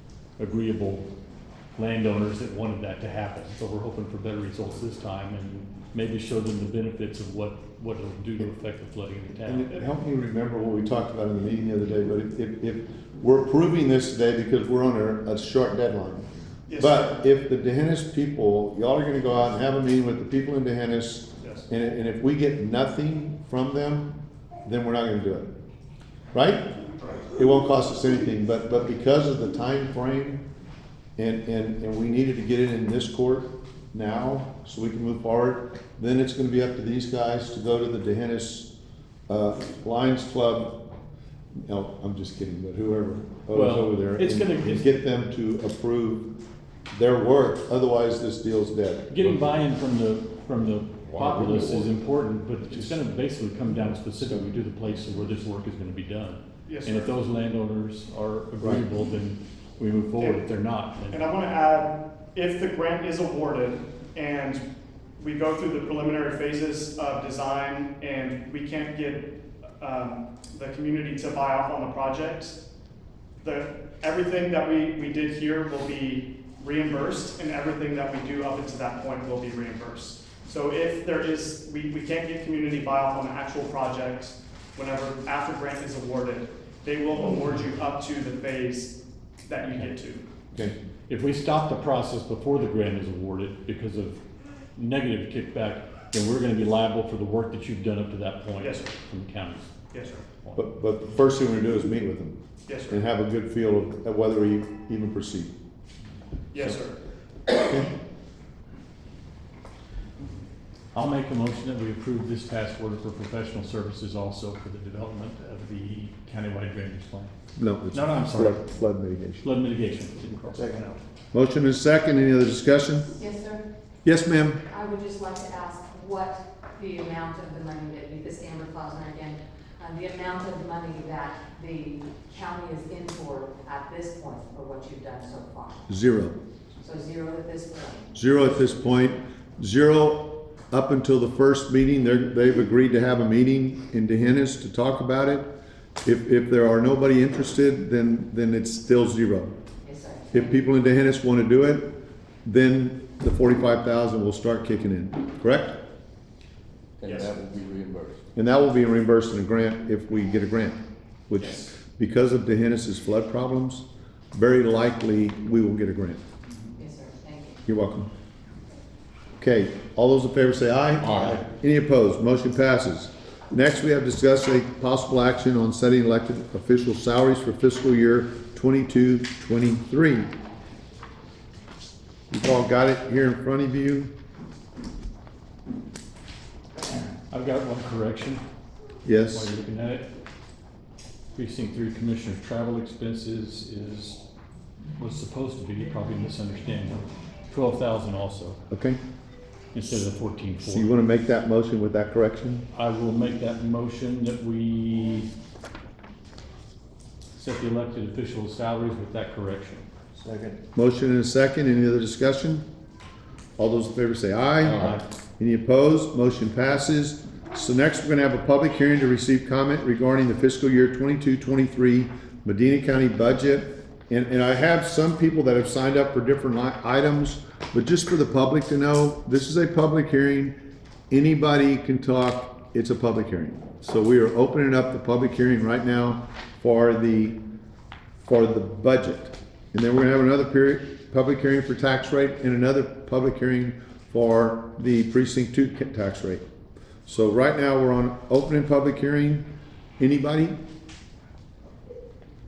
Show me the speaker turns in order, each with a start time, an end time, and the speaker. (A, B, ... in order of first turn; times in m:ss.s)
0:00.4-0:01.1 A
0:01.7-0:09.8 A
0:09.4-0:25.5 B
0:16.7-0:17.2 C
0:26.3-0:30.4 B
0:31.2-0:38.7 B
0:39.3-0:40.9 B
0:41.6-0:46.4 B
0:43.5-0:45.0 A
0:46.9-0:49.6 B
0:49.1-1:01.3 A
0:51.0-0:51.9 D
0:56.7-0:57.2 C
1:00.2-1:00.4 C
1:01.1-1:04.6 C
1:05.2-1:12.6 C
1:13.4-1:28.9 C
1:29.4-1:30.2 C
1:31.1-1:34.2 A
1:34.7-1:39.7 A
1:38.6-1:38.9 C
1:39.9-1:40.2 C
1:40.5-1:45.5 B
1:42.7-1:43.0 C
1:46.5-1:47.0 C
1:47.5-1:47.9 B
1:50.9-1:57.3 A
1:57.6-1:59.5 B
1:57.9-1:58.6 A
1:59.4-2:01.0 A
2:00.5-2:03.1 B
2:03.2-2:03.6 E
2:04.0-2:04.6 B
2:04.7-2:15.8 E
2:15.9-2:16.4 B
2:16.8-2:18.1 E
2:18.1-2:25.5 B
2:26.0-2:29.6 B
2:29.8-2:30.5 E
2:30.3-2:31.9 B
2:32.4-2:35.8 B
2:37.0-2:38.2 D
2:37.0-2:37.3 C
2:38.3-2:46.2 B
2:46.8-2:47.6 E
2:47.7-2:48.1 B
2:49.4-3:00.3 B
3:02.3-3:04.1 B
3:07.3-3:08.4 A
3:09.0-3:09.5 B
3:09.3-3:10.1 A
3:11.4-3:14.2 A
3:15.0-3:18.6 A
3:18.7-3:19.0 B
3:19.7-3:20.9 A
3:20.6-3:22.7 B
3:22.7-3:25.3 A
3:27.4-3:29.8 A
3:30.2-3:32.6 B
3:33.6-3:50.6 B
3:34.8-3:35.0 A
3:51.1-3:57.4 B
3:58.2-4:06.4 B
4:07.1-4:09.4 B
4:10.0-4:10.6 B